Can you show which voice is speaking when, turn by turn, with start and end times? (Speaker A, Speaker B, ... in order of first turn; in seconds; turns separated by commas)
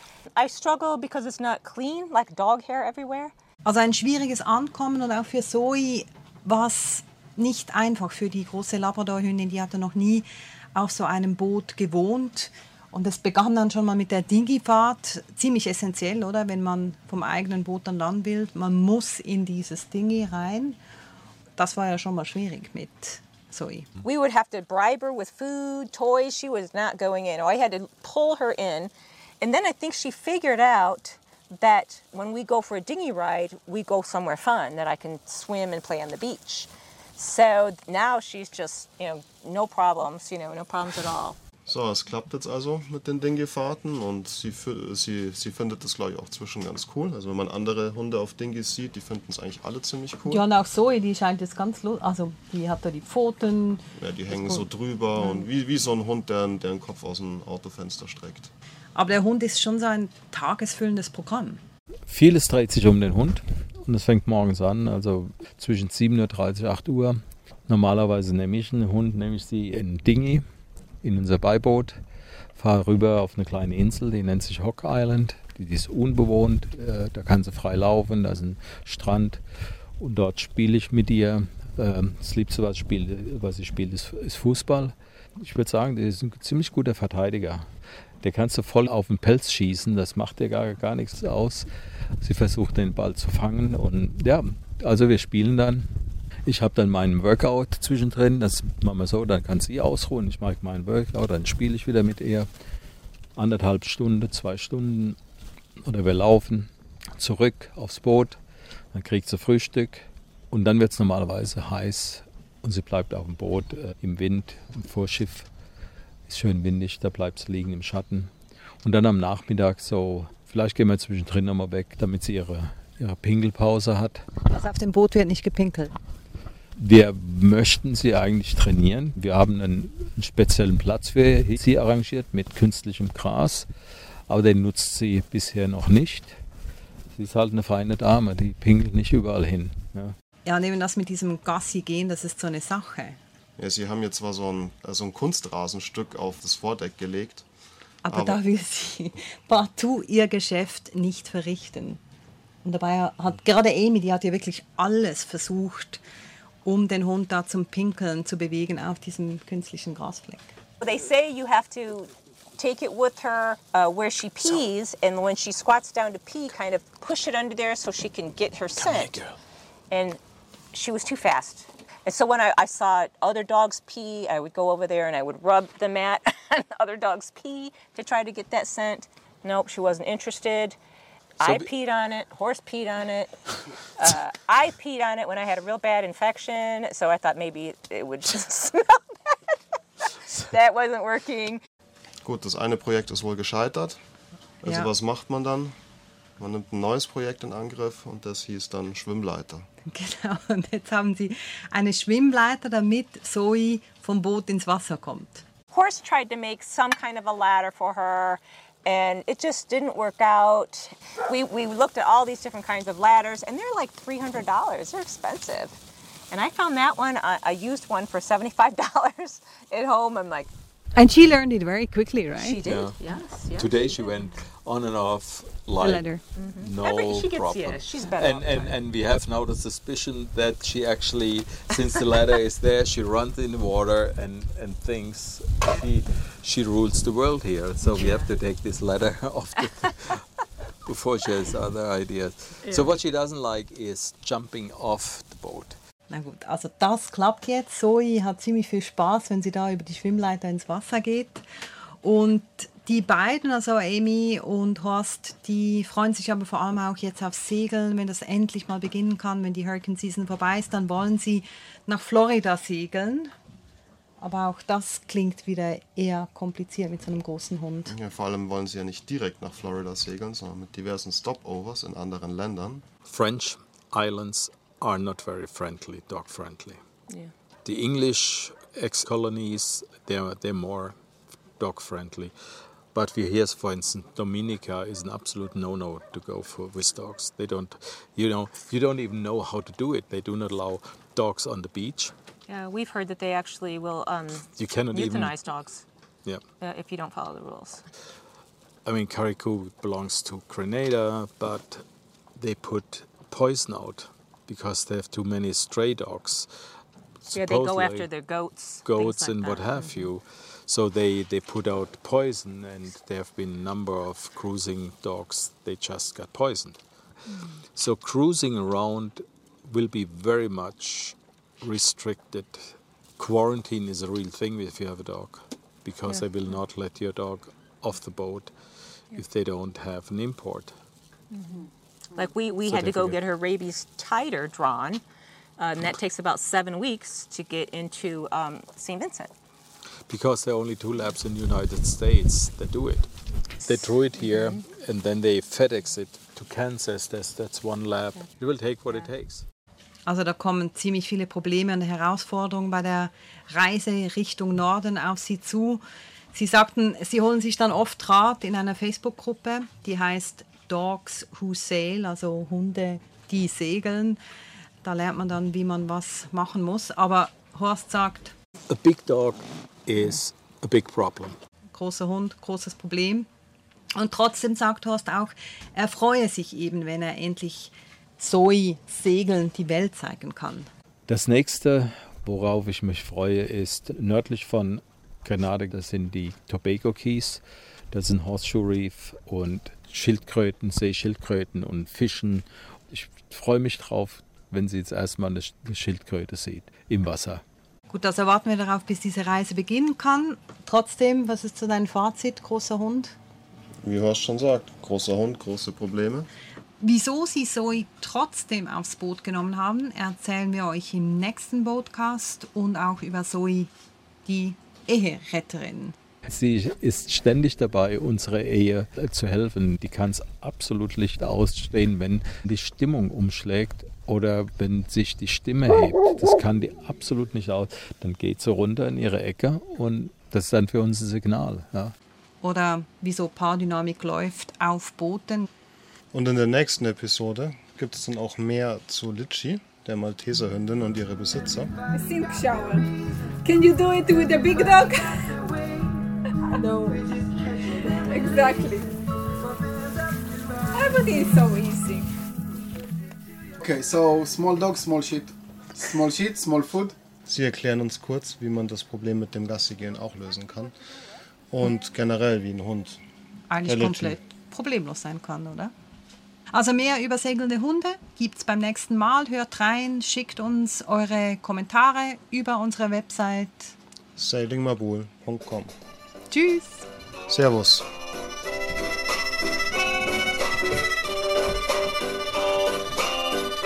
Speaker A: 0.3-3.3, Speaker B: 3.6-20.8, Speaker B: 21.6-23.9, Speaker A: 24.0-41.4, Speaker C: 41.7-50.4, Speaker B: 50.2-54.6, Speaker C: 54.0-58.5, Speaker B: 55.2-55.4, Speaker B: 58.9-61.6, Speaker D: 62.1-70.4, Speaker D: 71.0-72.0, Speaker D: 72.5-79.4, Speaker D: 80.0-87.7, Speaker D: 88.2-91.7, Speaker D: 92.2-95.9, Speaker D: 96.5-102.5, Speaker D: 103.3-105.2, Speaker D: 105.8-108.4, Speaker D: 108.9-115.5, Speaker D: 116.3-118.3, Speaker D: 118.8-124.2, Speaker B: 124.5-125.9, Speaker D: 126.8-133.7, Speaker D: 134.3-136.4, Speaker D: 137.1-140.2, Speaker B: 140.4-143.2, Speaker C: 143.6-147.4, Speaker B: 148.0-152.0, Speaker C: 148.1-148.4, Speaker B: 152.6-156.0, Speaker B: 156.6-160.5, Speaker A: 160.8-169.2, Speaker D: 168.8-169.3, Speaker A: 169.9-170.2, Speaker A: 170.7-180.8, Speaker A: 181.4-183.3, Speaker D: 181.4-181.7, Speaker A: 183.9-189.4, Speaker A: 190.1-191.6, Speaker C: 192.2-194.0, Speaker C: 194.6-195.7, Speaker C: 196.4-199.7, Speaker B: 199.8-205.4, Speaker A: 205.7-215.8, Speaker A: 216.3-220.5, Speaker B: 220.9-222.6, Speaker A: 222.4-224.3, Speaker D: 222.6-223.0, Speaker D: 223.6-226.0, Speaker B: 225.8-226.2, Speaker A: 226.4-228.7, Speaker D: 226.6-240.2, Speaker A: 237.9-238.3, Speaker D: 240.8-245.8, Speaker A: 242.6-242.9, Speaker B: 246.1-251.4, Speaker B: 252.0-263.3, Speaker B: 264.2-267.9, Speaker C: 267.9-272.9, Speaker D: 273.0-276.8, Speaker D: 277.6-281.0, Speaker D: 281.6-282.3, Speaker D: 282.9-292.1, Speaker A: 292.5-295.8, Speaker D: 294.6-295.3, Speaker A: 296.6-297.9, Speaker D: 298.8-301.8, Speaker D: 302.4-306.5, Speaker D: 307.3-308.1, Speaker A: 307.3-310.1, Speaker D: 308.9-316.8, Speaker A: 317.3-317.6, Speaker D: 317.7-328.5, Speaker A: 326.1-326.5, Speaker D: 329.1-330.7, Speaker A: 331.3-335.0, Speaker D: 332.6-333.2, Speaker A: 335.6-339.3, Speaker D: 340.1-343.1, Speaker D: 343.6-349.4, Speaker A: 344.3-344.6, Speaker B: 350.1-355.8, Speaker B: 356.3-364.2, Speaker B: 364.8-368.3, Speaker D: 368.7-371.4, Speaker B: 371.7-373.3, Speaker B: 373.9-380.7, Speaker D: 381.1-397.4, Speaker B: 397.9-403.1, Speaker C: 403.8-406.3, Speaker B: 406.8-413.7, Speaker B: 414.2-415.9, Speaker D: 416.2-431.9, Speaker B: 432.4-435.5, Speaker C: 436.1-441.7, Speaker E: 441.9-442.9, Speaker E: 443.4-445.4, Speaker E: 446.5-447.1, Speaker E: 447.6-449.0, Speaker E: 450.7-452.1, Speaker F: 453.6-456.9, Speaker C: 457.2-460.7, Speaker C: 461.5-463.0, Speaker B: 463.5-465.7, Speaker C: 463.6-464.2, Speaker B: 466.5-473.7, Speaker C: 474.1-475.7, Speaker B: 476.3-476.9, Speaker C: 477.3-477.9